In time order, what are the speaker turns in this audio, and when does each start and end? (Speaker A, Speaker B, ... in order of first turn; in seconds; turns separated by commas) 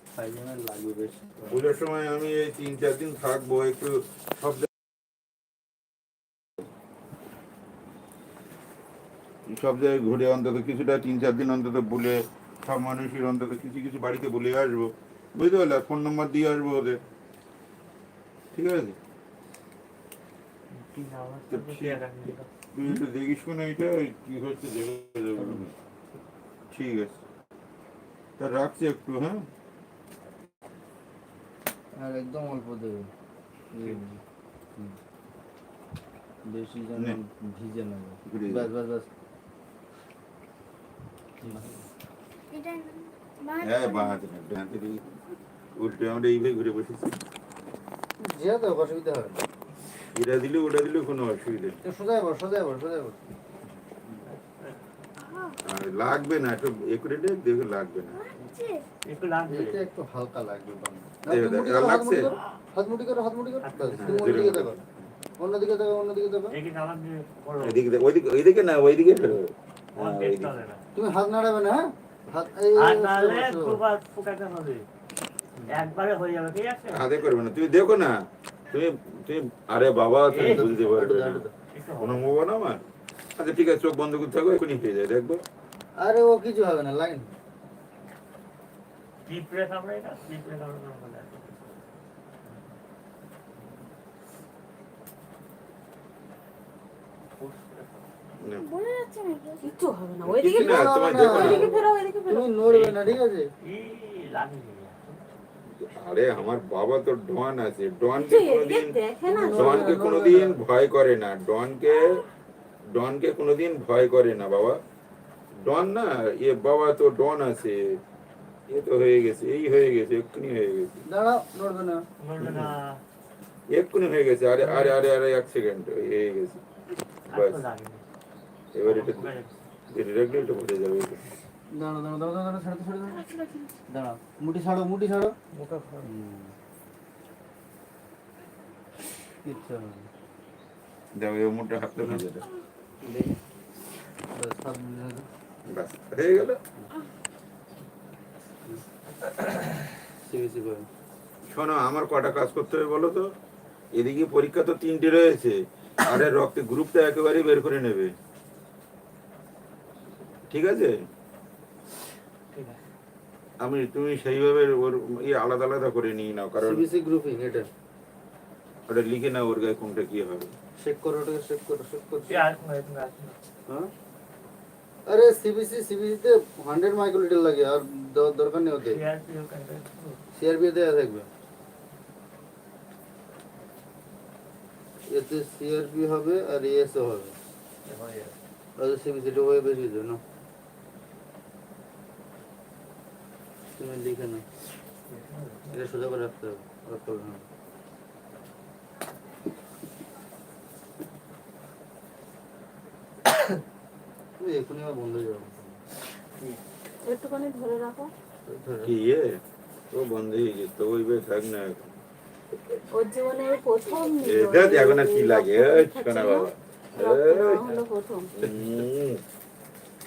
Speaker A: 0.1-1.6, Speaker B: 1.5-4.7, Speaker B: 9.5-17.0, Speaker B: 18.5-19.0, Speaker C: 20.7-22.5, Speaker B: 21.5-22.0, Speaker B: 22.7-25.7, Speaker A: 25.4-25.7, Speaker B: 26.7-27.2, Speaker B: 28.4-29.5, Speaker A: 31.9-33.1, Speaker A: 33.7-34.2, Speaker A: 36.4-39.1, Speaker B: 38.2-38.7, Speaker A: 41.4-41.8, Speaker D: 42.5-44.2, Speaker B: 43.6-45.1, Speaker B: 45.8-47.2, Speaker A: 48.2-49.4, Speaker B: 50.1-51.8, Speaker A: 51.8-53.2, Speaker C: 54.2-54.8, Speaker B: 55.6-58.2, Speaker D: 58.1-58.8, Speaker C: 59.0-59.9, Speaker A: 59.4-64.8, Speaker B: 61.3-62.3, Speaker C: 63.6-64.3, Speaker B: 63.9-64.8, Speaker A: 65.4-66.6, Speaker C: 66.5-67.8, Speaker B: 67.6-70.6, Speaker C: 70.0-70.8, Speaker A: 71.0-73.8, Speaker C: 72.8-74.8, Speaker C: 75.7-77.1, Speaker B: 76.9-78.1, Speaker B: 78.7-81.4, Speaker C: 80.3-80.8, Speaker A: 80.3-81.5, Speaker C: 81.7-82.3, Speaker B: 82.0-82.8, Speaker B: 83.4-85.4, Speaker A: 86.0-87.3, Speaker C: 89.2-91.5, Speaker C: 97.4-98.0, Speaker B: 98.4-98.7, Speaker D: 98.6-99.7, Speaker E: 99.6-102.5, Speaker B: 100.2-101.7, Speaker A: 100.5-103.5, Speaker C: 102.6-105.2, Speaker B: 105.7-112.2, Speaker E: 108.2-110.0, Speaker A: 109.3-110.6, Speaker B: 112.9-114.8, Speaker B: 115.6-118.0, Speaker B: 118.7-121.0, Speaker A: 121.1-122.0, Speaker C: 122.2-123.0, Speaker B: 122.4-122.7, Speaker B: 123.7-126.6, Speaker C: 124.6-125.0, Speaker C: 127.3-128.0, Speaker B: 127.3-127.6, Speaker B: 128.7-129.3, Speaker C: 128.8-129.5, Speaker B: 129.9-131.2, Speaker A: 131.7-133.2, Speaker E: 133.2-133.7, Speaker A: 133.9-135.3, Speaker C: 135.5-136.1, Speaker A: 136.0-136.6, Speaker A: 139.4-140.1, Speaker B: 141.1-142.5, Speaker A: 143.0-143.3, Speaker A: 144.3-145.3, Speaker B: 145.7-146.6, Speaker A: 150.1-150.9, Speaker B: 151.5-153.2, Speaker B: 153.9-158.1, Speaker B: 160.5-160.9, Speaker C: 162.5-162.8, Speaker B: 163.6-166.8, Speaker A: 166.6-167.7, Speaker B: 168.9-170.5, Speaker A: 170.8-172.5, Speaker C: 172.3-173.4, Speaker A: 175.1-179.0, Speaker C: 178.8-180.2, Speaker A: 180.3-181.3, Speaker A: 185.1-187.3, Speaker C: 187.8-188.3, Speaker A: 188.8-190.2, Speaker A: 193.8-194.4, Speaker C: 195.1-195.8, Speaker A: 195.7-197.4, Speaker A: 204.4-205.8, Speaker E: 207.0-208.1, Speaker A: 208.4-208.9, Speaker B: 208.8-209.3, Speaker B: 209.9-211.9, Speaker E: 212.9-218.3, Speaker D: 213.4-214.1, Speaker B: 214.2-217.7, Speaker B: 218.4-219.2